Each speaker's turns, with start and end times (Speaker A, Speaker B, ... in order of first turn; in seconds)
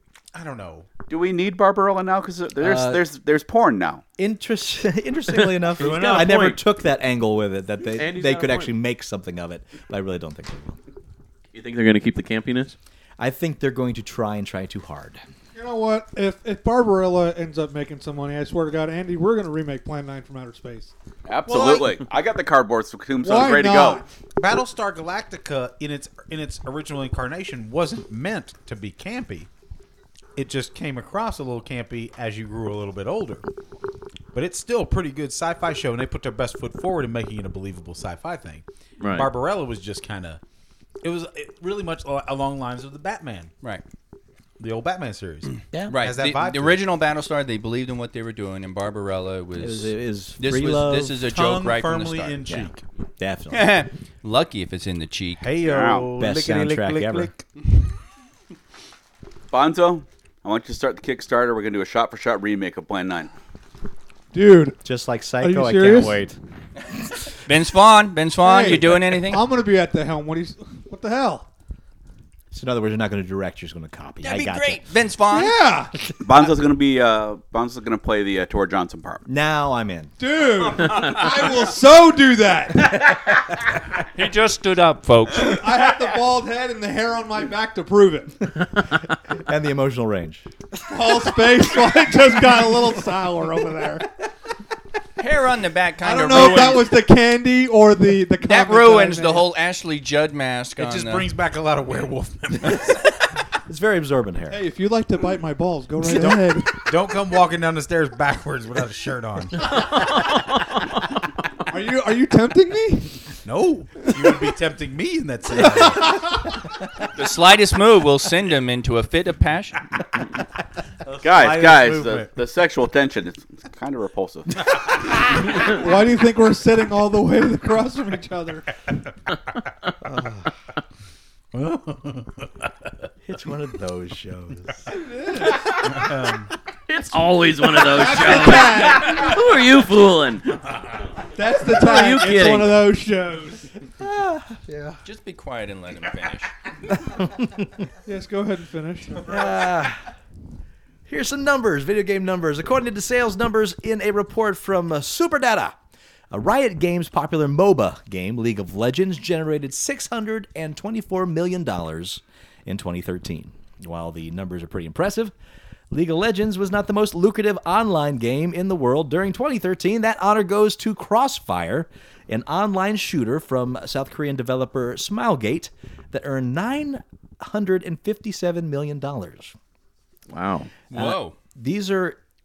Speaker A: 0.3-0.9, 6.0-6.2, 21.5-21.9, 24.4-29.5, 30.4-33.4, 34.3-40.4, 41.0-43.5, 44.6-46.8, 51.2-52.8, 55.4-57.4, 96.4-96.7, 100.8-103.0, 106.1-109.6, 113.4-116.2, 121.0-122.3, 131.5-132.9, 135.8-136.5
Speaker B: 1.1-4.0, 21.2-24.0, 55.6-56.1, 59.5-63.3, 76.2-79.2, 121.2-124.7
Speaker C: 2.6-3.0, 4.2-10.8, 13.2-15.2, 49.6-51.1, 52.5-53.8, 56.2-57.3, 64.8-66.4, 72.5-74.8, 79.3-80.1, 89.3-91.2, 103.6-104.6, 133.2-134.8, 144.0-145.0, 149.2-150.0, 151.1-155.7, 156.3-165.3, 165.9-179.5, 180.9-182.2
Speaker D: 5.6-6.6, 7.9-8.7, 11.5-12.7, 39.0-39.3, 109.6-111.2, 136.9-140.6, 141.7-142.8, 180.3-180.8
Speaker E: 15.5-20.9, 23.2-24.1, 64.3-64.8, 65.4-66.2, 68.4-71.5, 75.3-76.0, 80.2-83.0, 85.4-88.4, 90.9-94.1, 96.0-99.5, 104.5-106.8, 111.7-113.2, 115.6-116.4, 125.5-128.7, 134.9-135.7, 137.8-139.4, 141.3-143.7, 148.0-149.3
Speaker F: 45.9-52.5, 53.5-55.4, 67.4-69.4, 74.2-75.6, 84.1-85.7, 95.2-96.9, 98.4-101.3, 117.1-119.8, 145.0-146.5, 180.9-181.3